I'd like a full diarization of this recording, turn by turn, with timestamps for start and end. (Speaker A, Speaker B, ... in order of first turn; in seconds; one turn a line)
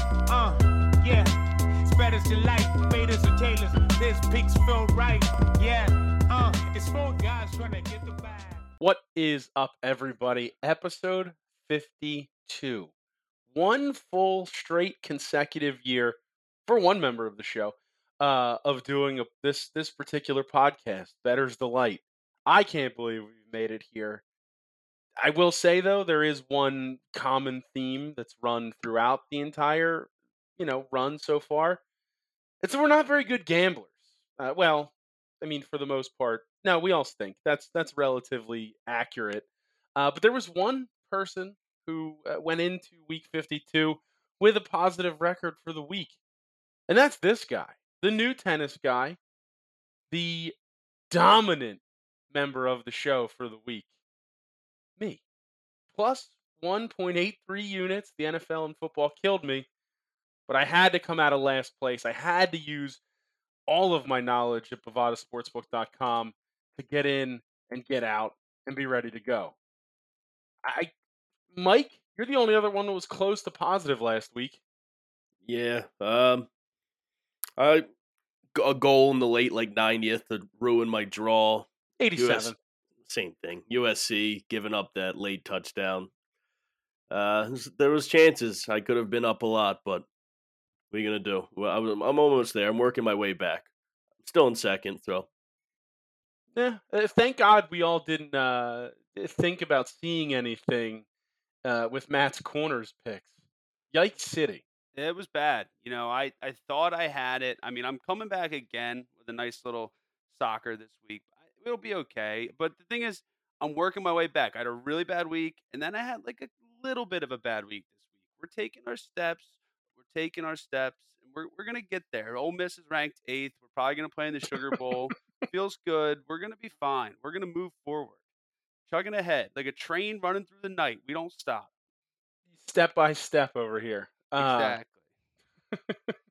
Speaker A: 0.3-1.3
Speaker A: 1.9-8.6
Speaker B: 8.8-12.9
Speaker B: 13.5-24.2
Speaker B: 25.2-31.8
Speaker B: 32.6-46.1
Speaker B: 46.9-49.2
Speaker B: 50.1-50.5
Speaker B: 51.1-53.9
Speaker B: 55.9-59.7
Speaker B: 60.5-63.0
Speaker B: 63.7-69.5
Speaker B: 70.6-70.9
Speaker B: 71.5-74.6
Speaker C: 75.4-76.5
Speaker C: 77.6-77.9
Speaker C: 78.5-86.1
Speaker B: 82.0-82.5
Speaker C: 87.1-90.0
Speaker C: 90.9-93.7
Speaker C: 94.2-95.3
Speaker B: 96.5-101.0
Speaker B: 101.6-103.3
Speaker B: 103.9-104.6
Speaker D: 104.9-128.2
Speaker B: 124.5-124.9
Speaker D: 128.9-131.7
Speaker B: 132.6-134.8
Speaker D: 134.4-135.0
Speaker B: 135.9-136.1